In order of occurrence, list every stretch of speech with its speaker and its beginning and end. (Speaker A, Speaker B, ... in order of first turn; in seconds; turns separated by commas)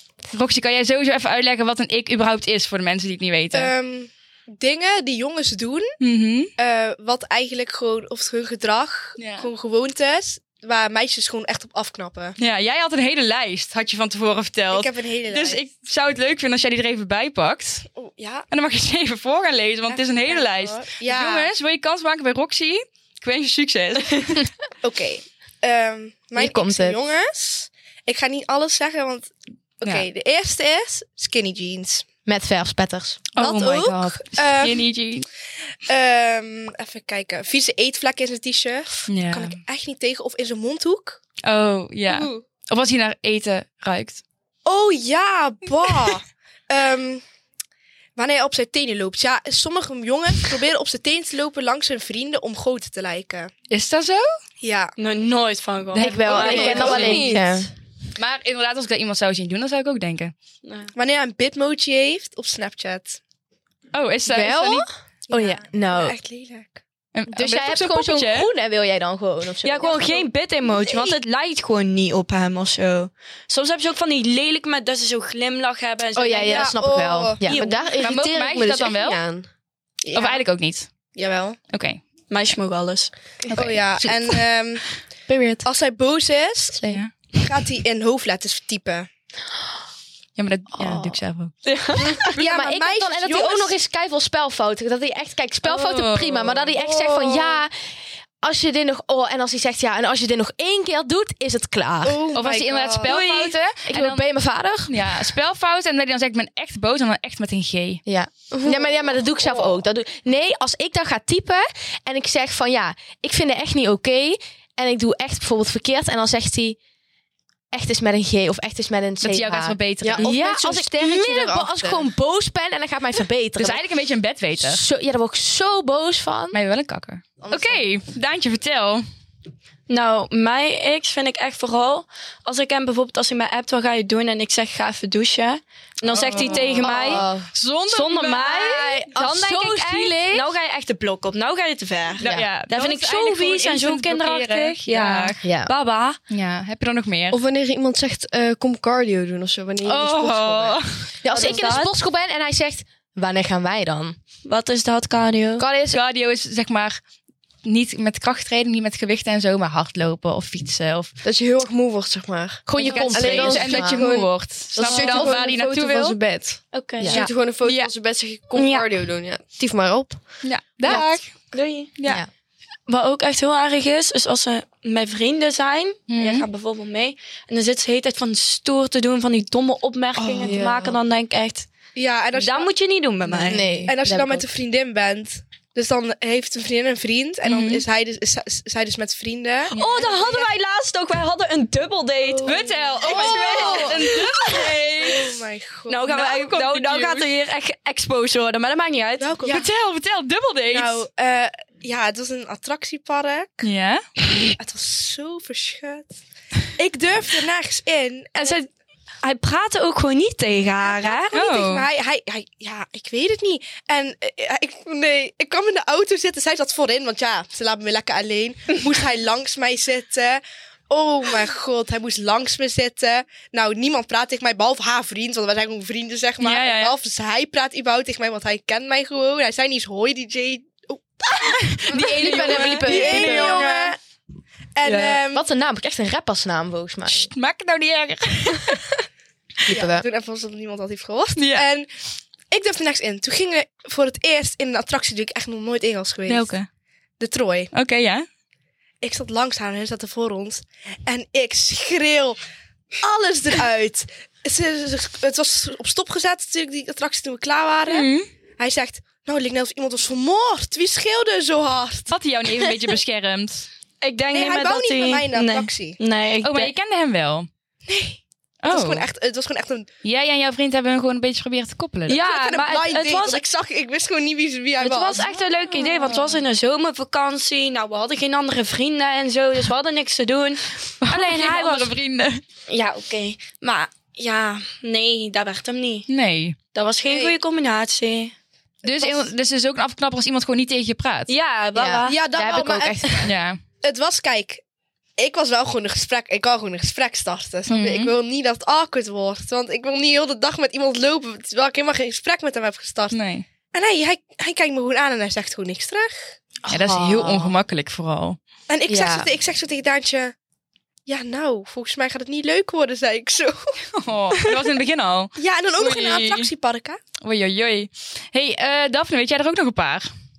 Speaker A: 0.3-3.7, Speaker B: 3.5-6.0, Speaker A: 6.0-6.5, Speaker B: 6.6-12.4, Speaker A: 9.2-9.5, Speaker A: 12.4-17.9, Speaker B: 14.7-15.6, Speaker B: 18.0-18.5, Speaker A: 18.5-24.5, Speaker B: 19.9-21.5, Speaker B: 24.8-32.0, Speaker C: 26.4-27.0, Speaker C: 32.3-33.2, Speaker A: 33.3-35.3, Speaker B: 33.4-34.8, Speaker B: 35.9-41.2, Speaker A: 39.1-39.6, Speaker A: 41.4-44.2, Speaker B: 44.6-47.2, Speaker B: 48.2-53.5, Speaker A: 53.7-54.3, Speaker B: 54.6-54.9, Speaker D: 55.0-57.4, Speaker C: 56.0-57.7, Speaker B: 56.3-57.3, Speaker E: 56.3-57.6, Speaker A: 58.2-60.3, Speaker D: 60.6-60.9, Speaker B: 61.0-63.2, Speaker A: 63.9-64.9, Speaker C: 64.3-66.2, Speaker B: 65.3-66.8, Speaker A: 67.2-68.5, Speaker C: 67.3-70.2, Speaker D: 69.6-76.8, Speaker C: 76.2-78.2, Speaker B: 76.5-77.5, Speaker D: 77.4-77.8, Speaker E: 77.5-79.5, Speaker A: 78.0-79.2, Speaker B: 80.0-80.4, Speaker A: 80.1-80.9, Speaker B: 81.2-81.6, Speaker A: 81.7-82.0, Speaker D: 82.3-83.1, Speaker A: 83.5-84.3, Speaker B: 83.5-85.0, Speaker B: 85.6-89.1, Speaker A: 86.8-87.1, Speaker A: 90.4-91.5, Speaker C: 90.8-91.2, Speaker D: 91.7-92.3, Speaker C: 92.3-97.7, Speaker B: 92.3-93.8, Speaker A: 95.6-96.7, Speaker B: 96.8-97.5, Speaker C: 98.4-102.2, Speaker B: 102.0-103.1, Speaker A: 102.3-104.2, Speaker D: 103.1-103.5, Speaker C: 103.9-105.3, Speaker A: 104.9-108.0, Speaker C: 108.1-116.8, Speaker E: 108.5-109.0, Speaker C: 117.7-123.8, Speaker A: 119.2-120.3, Speaker E: 120.0-120.3, Speaker B: 120.4-122.1, Speaker A: 123.6-124.8, Speaker C: 124.6-126.6, Speaker A: 126.5-129.1, Speaker D: 129.9-137.3, Speaker A: 136.0-139.1, Speaker C: 136.8-137.5, Speaker D: 137.9-146.2, Speaker C: 139.1-140.5, Speaker C: 142.2-142.5, Speaker A: 142.2-145.4, Speaker C: 145.4-145.7, Speaker A: 146.3-147.4, Speaker E: 147.3-150.8, Speaker A: 149.8-151.1, Speaker C: 151.2-154.2, Speaker D: 151.3-151.9, Speaker D: 154.4-155.7, Speaker C: 155.6-156.0, Speaker A: 155.9-157.0, Speaker A: 157.7-161.1, Speaker E: 161.2-170.2, Speaker C: 162.7-164.1, Speaker A: 162.8-166.2, Speaker D: 164.9-165.3, Speaker D: 166.7-167.3, Speaker C: 167.0-167.3, Speaker A: 167.2-167.9, Speaker D: 168.6-168.9, Speaker A: 170.4-171.3, Speaker D: 171.5-172.0, Speaker A: 172.0-172.2, Speaker D: 172.9-181.7, Speaker A: 176.1-176.5, Speaker B: 180.2-180.5, Speaker E: 180.4-181.0, Speaker B: 182.0-182.7, Speaker D: 182.3-183.8, Speaker C: 183.4-184.5, Speaker B: 183.9-190.1, Speaker A: 187.5-187.8, Speaker D: 189.7-194.3, Speaker A: 189.7-190.4, Speaker B: 192.4-194.1, Speaker A: 192.4-195.3, Speaker B: 195.0-196.4, Speaker D: 195.9-199.4, Speaker A: 196.1-197.3, Speaker B: 199.2-199.7, Speaker A: 199.4-201.1, Speaker B: 200.7-203.6, Speaker A: 203.6-204.1, Speaker B: 204.5-206.2, Speaker B: 206.8-208.6, Speaker D: 208.4-208.7, Speaker D: 209.2-211.4, Speaker B: 210.8-234.0, Speaker A: 211.3-211.9, Speaker A: 226.4-226.9, Speaker A: 231.6-233.9, Speaker C: 231.9-233.7, Speaker B: 234.8-235.4, Speaker C: 235.3-237.3, Speaker A: 237.1-238.8, Speaker C: 239.7-240.1, Speaker B: 239.7-241.9, Speaker A: 241.4-241.7, Speaker B: 242.5-246.5, Speaker A: 246.3-246.7, Speaker B: 247.2-247.7, Speaker A: 247.7-248.3, Speaker B: 249.0-252.4, Speaker B: 253.0-262.1, Speaker A: 257.9-258.3, Speaker A: 262.1-263.7, Speaker D: 264.0-266.7, Speaker B: 264.3-266.0, Speaker A: 266.4-267.5, Speaker B: 267.9-269.9, Speaker A: 268.6-269.1, Speaker A: 270.0-272.2, Speaker D: 272.1-273.4, Speaker B: 272.2-275.3, Speaker D: 274.8-281.9, Speaker A: 275.2-276.3, Speaker A: 281.0-282.4, Speaker D: 282.7-286.1, Speaker A: 286.1-286.6, Speaker D: 286.7-288.3, Speaker B: 287.1-287.4, Speaker A: 288.8-291.3, Speaker D: 291.3-292.4, Speaker C: 291.8-293.3, Speaker B: 292.1-293.3, Speaker A: 293.2-293.6, Speaker B: 293.8-294.6, Speaker B: 295.2-303.2, Speaker A: 297.7-298.1, Speaker A: 303.1-303.4, Speaker B: 303.7-306.3, Speaker C: 306.7-307.6, Speaker A: 306.7-308.4, Speaker B: 308.7-310.3, Speaker C: 308.9-309.3, Speaker B: 311.1-313.7, Speaker A: 313.9-316.5, Speaker B: 315.4-317.0, Speaker A: 317.2-320.1